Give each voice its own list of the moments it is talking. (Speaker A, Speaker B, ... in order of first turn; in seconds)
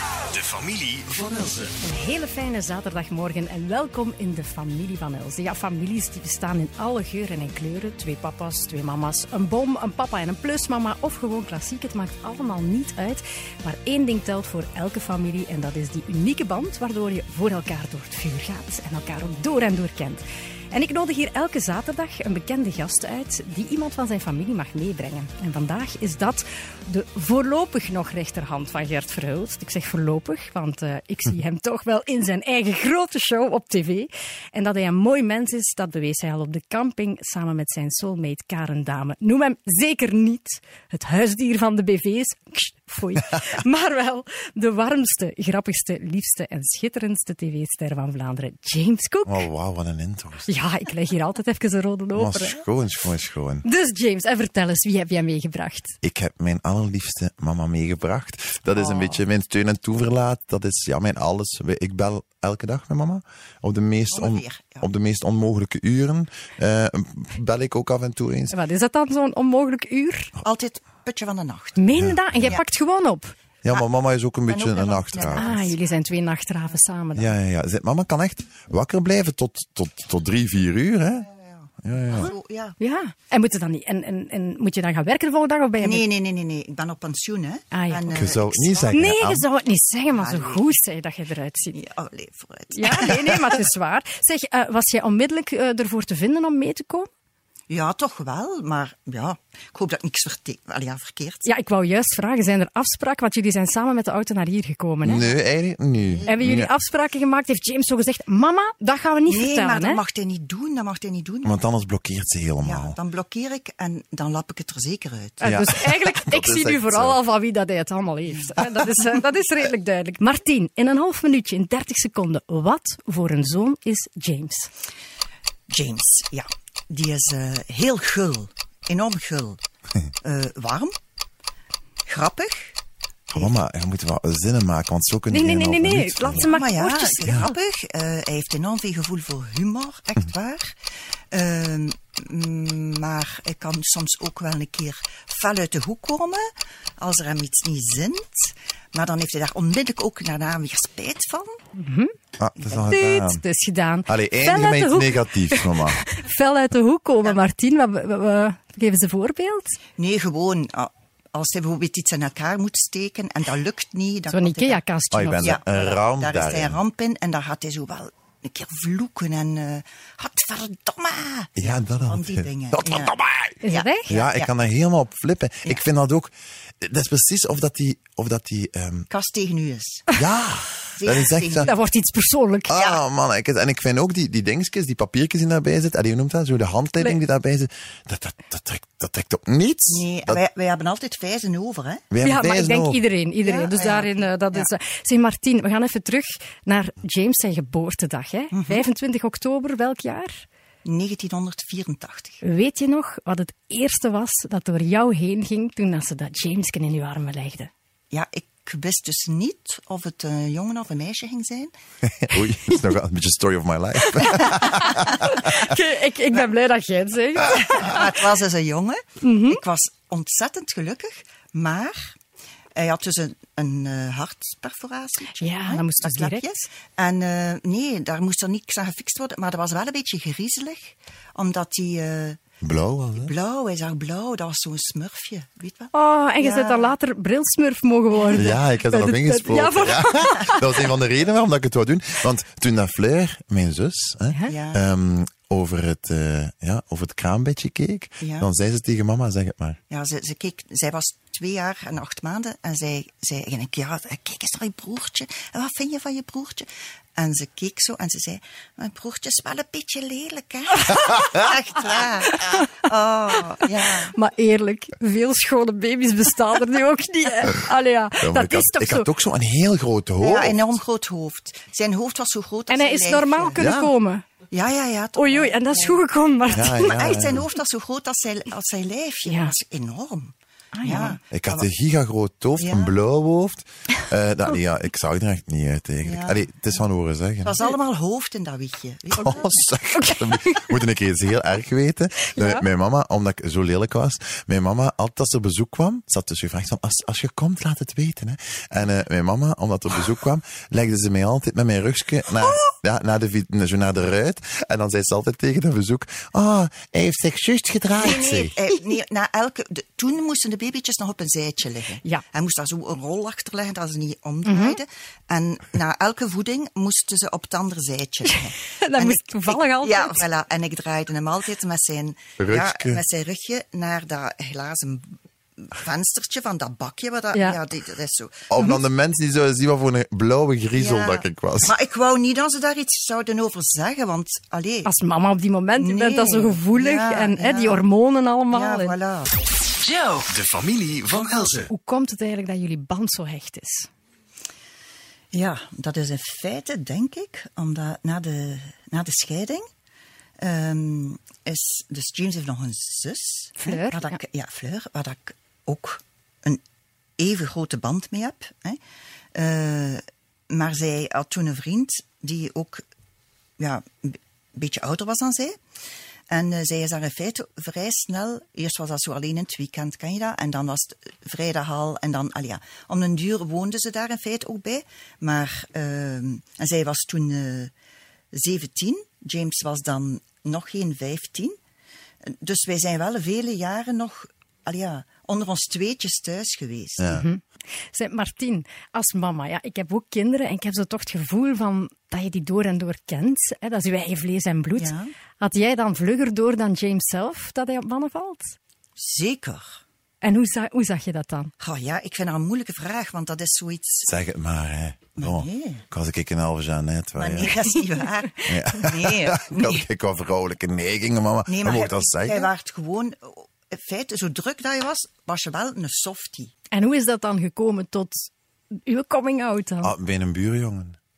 Speaker A: 0.3-1.8, 339.8-341.7
Speaker B: 1.8-49.4, 50.5-52.6, 53.6-56.0, 58.7-59.2, 68.5-70.3, 71.8-73.3, 75.4-77.3, 82.2-86.0, 87.7-88.1, 88.9-91.8, 92.7-97.1, 101.5-105.2, 106.3-110.0, 115.4-124.7, 135.3-137.4, 151.8-152.1, 152.8-159.8, 164.3-165.5, 173.6-174.1, 181.6-182.7, 192.2-200.4, 202.4-207.7, 214.2-218.1, 219.2-219.6, 225.4-226.6, 235.9-240.6, 262.3-262.6, 264.1-269.1, 272.7-274.2, 275.1-277.0, 279.2-279.5, 280.7-281.2, 289.9-290.7, 292.3-292.6, 314.4-314.8, 318.3-320.2, 327.3-327.6, 334.8-338.9, 341.7-343.9, 353.6-354.2, 387.1-398.6, 400.2-401.5, 416.7-419.9
Speaker C: 49.2-50.5, 52.1-53.6, 56.0-68.5, 71.9-72.5, 73.6-75.6, 77.1-81.3, 81.8-82.3, 88.1-89.4, 105.0-106.7, 111.4-113.0, 115.4-117.2, 133.3-136.6, 137.2-137.5, 152.4-153.4, 154.1-156.0, 165.1-166.8, 171.6-179.1, 180.2-181.7, 182.7-190.4, 192.1-193.0, 212.1-215.7, 232.6-233.3, 238.3-249.8, 261.2-261.4, 268.2-270.8, 273.6-273.9, 276.5-277.4, 281.3-287.6, 289.2-308.6, 322.4-323.0, 328.5-331.7, 387.0-387.2, 404.0-407.5, 408.5-412.5, 419.8-421.0
Speaker D: 64.1-64.9, 70.4-71.8, 74.5-75.8, 81.4-82.8, 85.8-89.0, 90.1-90.6, 91.7-93.6, 97.7-101.5, 106.1-106.5, 109.3-111.6, 112.6-115.5, 125.7-129.6, 130.2-130.9, 132.1-132.8, 136.3-140.7, 141.3-146.5, 147.0-151.6, 152.6-152.9, 160.0-164.8, 165.4-174.5, 179.1-180.1, 180.9-181.7, 182.7-183.0, 189.9-192.0, 193.4-194.7, 198.5-198.9, 200.8-202.4, 208.1-211.7, 217.5-222.2, 222.7-232.4, 233.2-236.9, 238.1-238.6, 244.5-244.9, 248.2-248.5, 249.9-264.1, 270.2-273.6, 274.5-281.7, 282.6-282.9, 286.0-286.4, 287.4-289.6, 308.0-328.6, 330.8-334.9, 335.8-337.8, 338.5-339.3, 345.3-349.7, 350.4-356.6, 357.2-358.8, 359.3-362.8, 363.6-365.6, 366.3-377.7, 378.3-381.6, 382.2-387.1, 394.8-395.1, 399.0-399.8, 401.6-404.1, 405.2-405.8, 407.2-409.8, 411.5-416.5